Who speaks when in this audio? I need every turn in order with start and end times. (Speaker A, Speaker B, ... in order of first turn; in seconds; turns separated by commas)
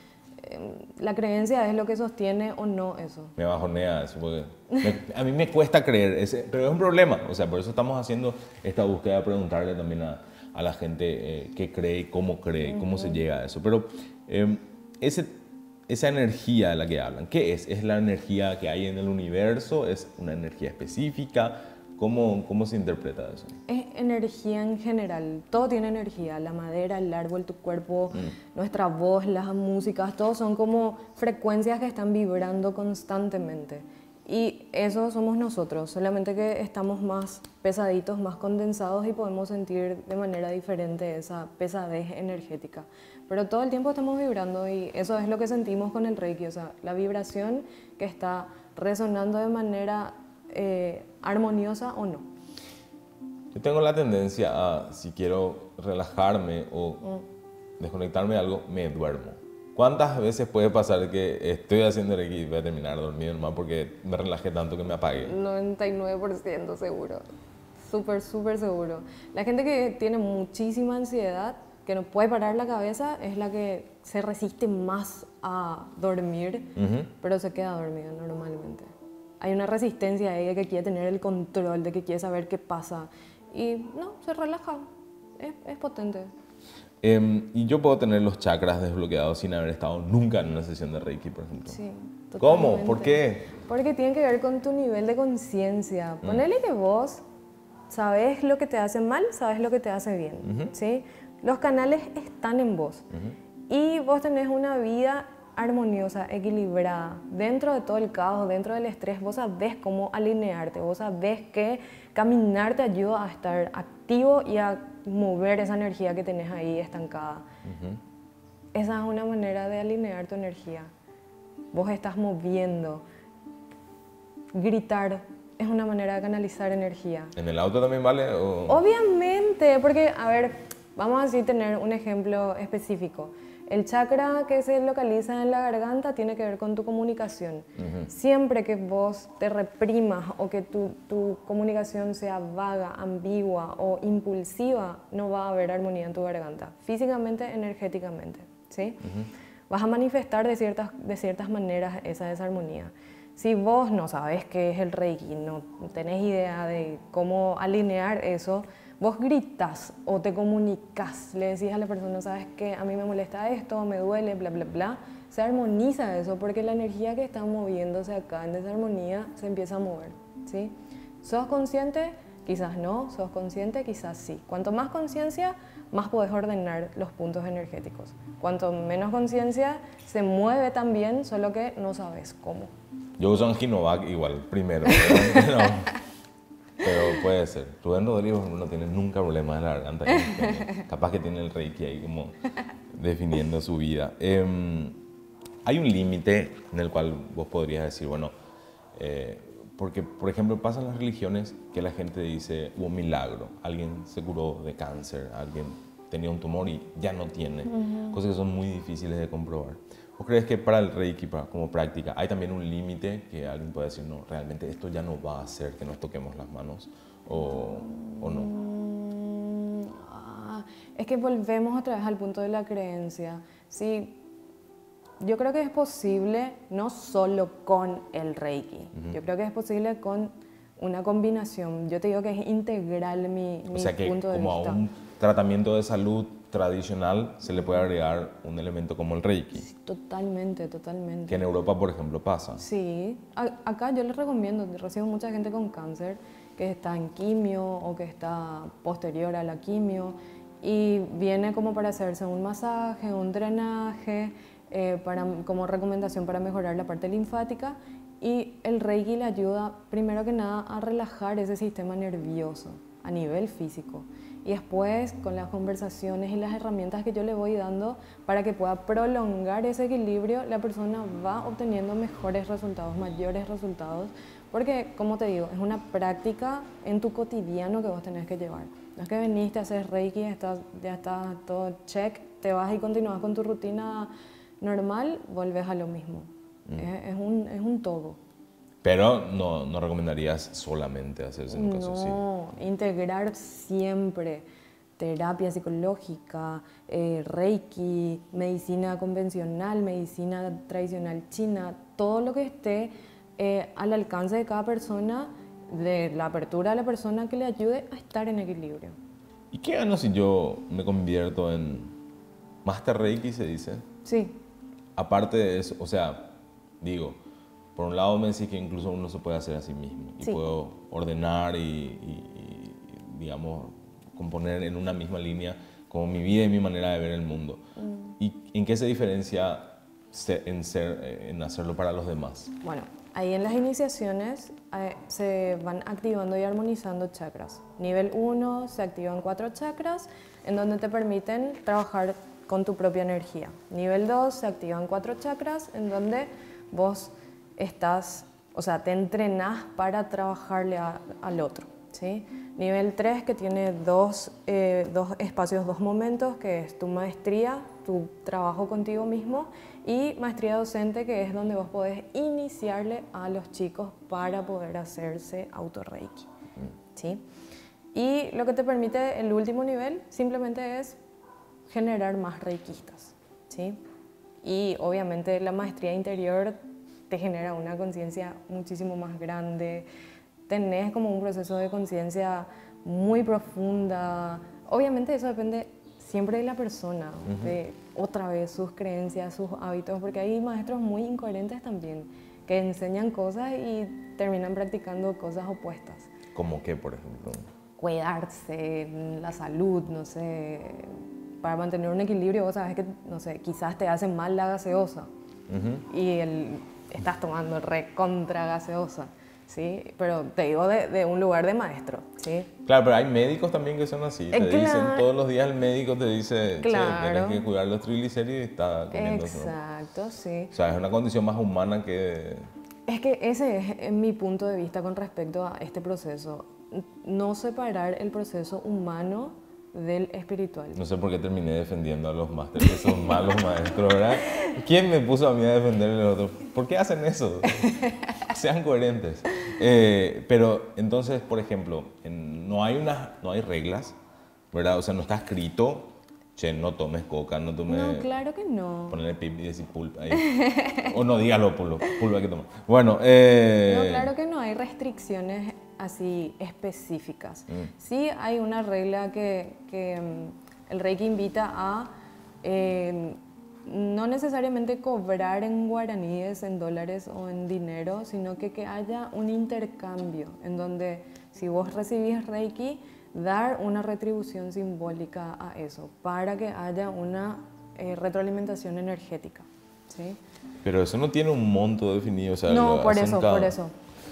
Speaker A: 0.4-3.3, Speaker B: 3.4-23.6, Speaker A: 12.7-13.2, Speaker A: 23.7-52.2, Speaker B: 53.5-57.1, Speaker B: 57.8-65.3, Speaker A: 65.2-67.2, Speaker A: 67.8-84.9, Speaker B: 76.8-77.1, Speaker A: 85.4-86.3, Speaker B: 87.0-91.8, Speaker A: 91.7-97.2, Speaker B: 92.4-93.5, Speaker A: 97.9-103.0, Speaker B: 100.4-100.7, Speaker B: 103.1-103.3, Speaker A: 103.7-117.4, Speaker B: 117.6-118.0, Speaker A: 118.7-120.9, Speaker A: 121.7-123.0, Speaker A: 124.5-127.3, Speaker B: 127.3-128.8, Speaker A: 128.7-149.0, Speaker B: 137.8-138.1, Speaker B: 149.0-149.3, Speaker A: 149.7-182.7, Speaker B: 183.2-186.0, Speaker B: 186.8-192.4, Speaker A: 190.2-190.8, Speaker B: 192.9-195.0, Speaker B: 195.6-198.3, Speaker B: 198.9-218.5, Speaker A: 207.7-208.2, Speaker A: 217.8-224.2, Speaker A: 225.2-234.8, Speaker B: 233.7-239.6, Speaker A: 239.6-241.4, Speaker B: 241.3-242.6, Speaker A: 242.6-288.2, Speaker B: 288.8-292.2, Speaker A: 291.5-294.4, Speaker A: 295.0-308.9, Speaker B: 309.5-311.9, Speaker B: 312.6-313.8, Speaker A: 314.0-314.4, Speaker B: 314.9-317.2, Speaker B: 317.8-327.6, Speaker A: 327.8-328.1, Speaker B: 328.2-332.5, Speaker A: 332.6-366.3, Speaker A: 366.9-367.2, Speaker A: 367.9-371.0, Speaker A: 371.7-373.8, Speaker A: 374.4-376.6, Speaker A: 377.1-379.9, Speaker A: 380.5-396.1, Speaker B: 387.2-387.6, Speaker B: 396.3-397.5, Speaker A: 397.8-405.1, Speaker B: 405.5-405.8, Speaker A: 405.9-412.5, Speaker B: 412.6-419.6, Speaker A: 414.3-415.1, Speaker A: 416.6-417.4, Speaker A: 418.9-420.5, Speaker B: 420.5-422.5, Speaker A: 422.9-430.8, Speaker B: 430.7-443.9, Speaker B: 444.5-448.1, Speaker A: 447.7-449.0, Speaker B: 448.9-454.1, Speaker A: 450.2-450.8, Speaker A: 453.7-461.9, Speaker A: 462.4-480.2, Speaker B: 480.6-483.6, Speaker A: 482.5-483.7